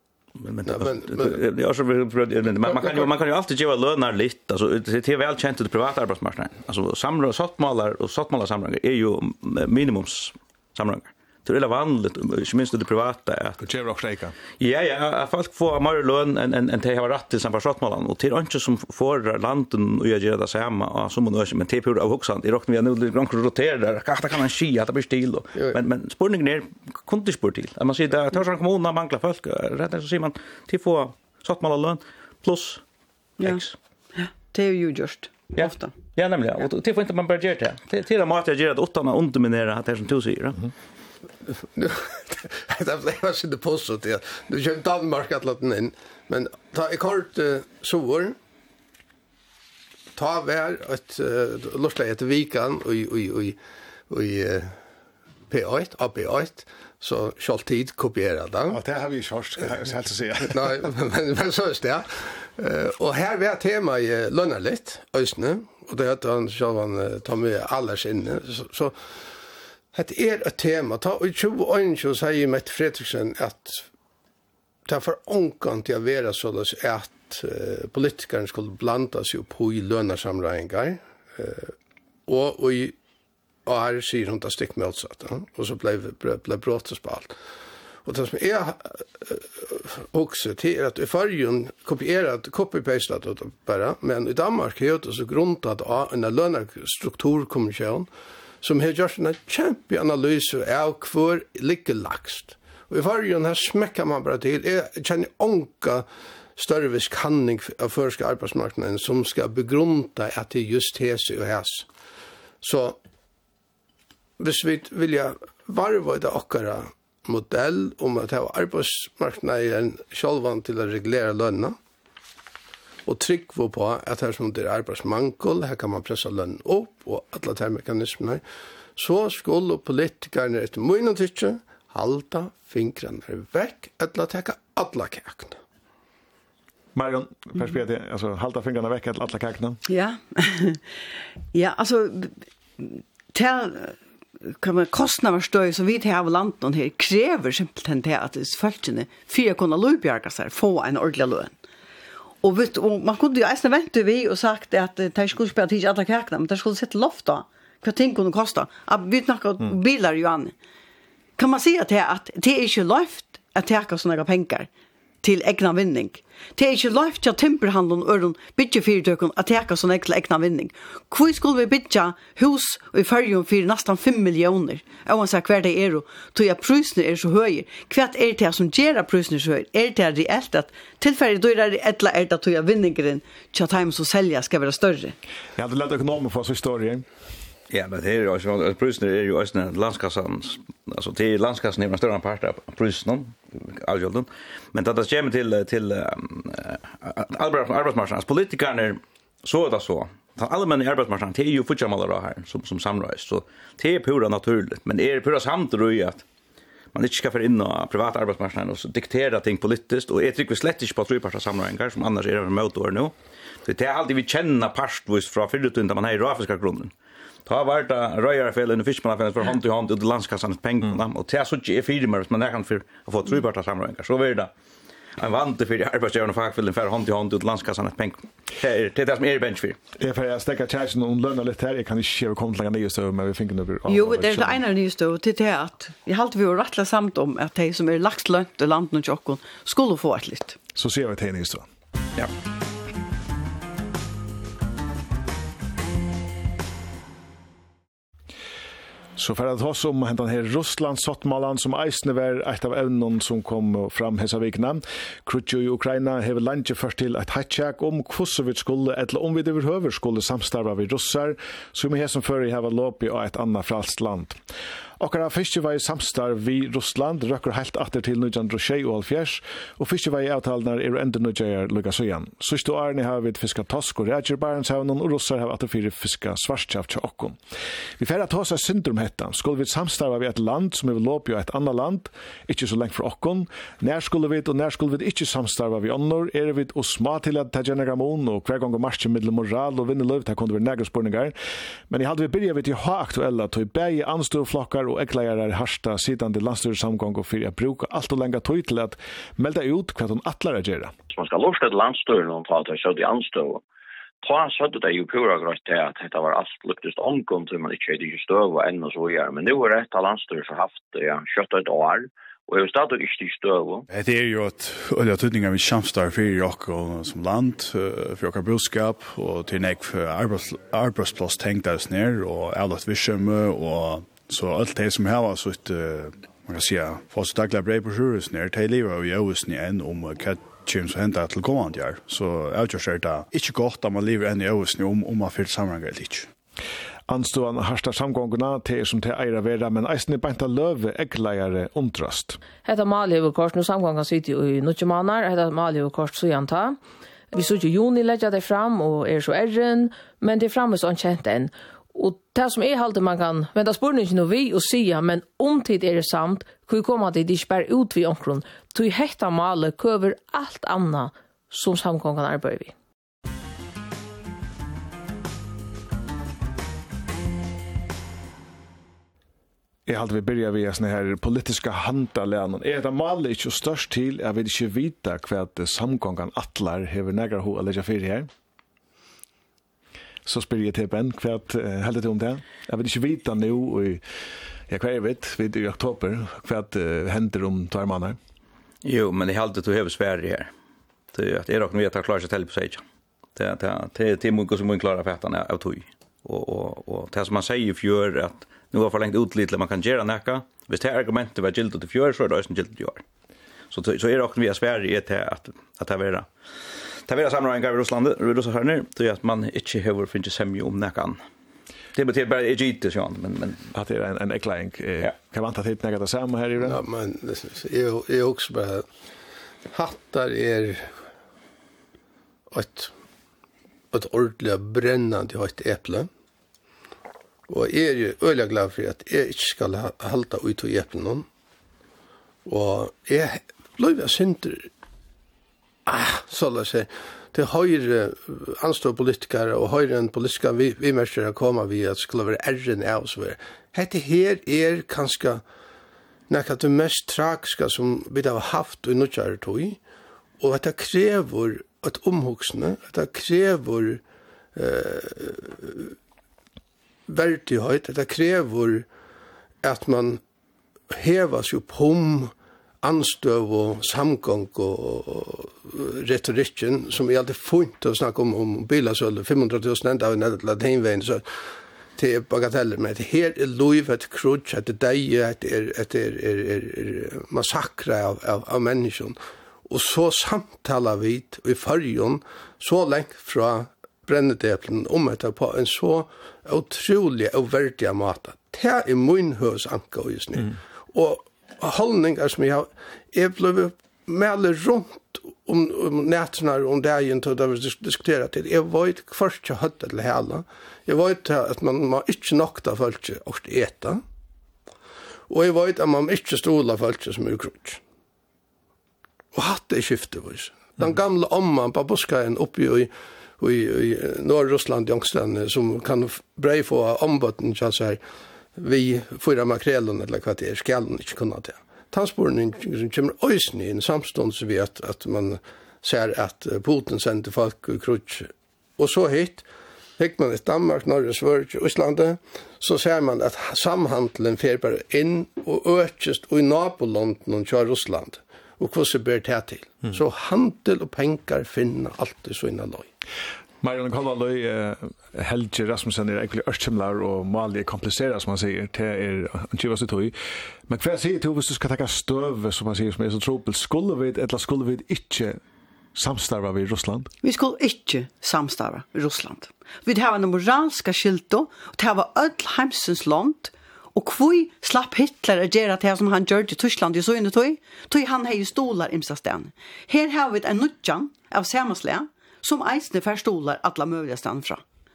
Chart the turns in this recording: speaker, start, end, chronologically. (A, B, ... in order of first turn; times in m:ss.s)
0:00.4-0:13.6 A
0:00.7-0:01.4 B
0:02.7-0:03.1 B
0:13.6-0:14.3 C
0:14.6-0:32.8 A
0:33.4-0:33.8 A
0:34.1-0:35.9 D
0:35.5-0:40.7 A
0:41.6-0:48.4 B
0:50.1-0:53.6 B
0:54.1-0:54.8 B
0:55.5-0:58.8 B
0:58.7-1:00.8 C
1:00.5-1:08.9 B
1:09.9-1:13.8 B
1:14.9-1:21.7 B
1:22.3-1:23.0 B
1:23.6-1:27.3 B
1:28.0-1:38.1 B
1:38.6-1:46.0 B
1:46.6-1:51.9 B
1:52.6-1:53.0 B
1:54.4-2:01.8 B
2:03.0-2:08.4 B
2:09.0-2:15.6 B
2:16.9-2:19.8 C
2:19.9-2:20.8 D
2:21.5-2:31.5 D
2:32.4-2:40.5 D
2:41.4-2:44.7 D
2:45.2-3:05.2 D
3:05.6-3:07.0 C
3:07.7-3:26.2 A
3:26.9-3:33.1 A
3:33.6-3:36.9 A
3:37.4-3:44.5 A
3:45.2-3:49.8 A
3:50.0-3:54.6 C
3:53.9-4:00.6 D
4:00.7-4:01.7 C
4:09.2-4:24.4 C
4:25.0-4:37.4 C
4:38.0-4:51.3 C
4:51.9-5:00.9 C
5:01.1-5:03.6 E
5:04.2-5:13.8 E
5:13.9-5:36.3 F
5:37.1-5:42.4 C
5:42.6-5:46.8 G
5:47.3-6:02.7 G
6:09.8-6:18.3 C
6:20.2-6:24.0 C
6:24.7-6:28.2 C
6:28.8-6:30.5 A
6:31.1-6:32.8 A
6:33.4-6:43.0 A
6:43.7-6:46.3 A
6:47.1-6:51.2 A
6:51.9-6:53.6 A
6:53.7-6:56.8 C
6:56.6-6:58.8 B
6:59.7-7:00.9 B
7:02.5-7:02.9 B
7:03.9-7:06.1 B
7:07.5-7:11.2 B
7:12.4-7:14.7 B
7:15.8-7:25.4 B
7:26.3-7:29.8 B
7:30.4-7:34.0 B
7:34.6-7:35.9 B
7:37.1-7:38.9 B
7:39.6-7:40.2 B
7:40.9-7:51.2 B
7:52.0-7:59.2 B
7:59.7-8:24.0 B
8:25.3-8:27.8 B
8:29.3-8:38.0 B
8:38.6-8:49.4 B
8:50.0-9:02.9 B
9:03.6-9:10.1 C
9:10.7-9:15.4 C
9:15.9-9:17.1 C
9:17.2-9:34.6 D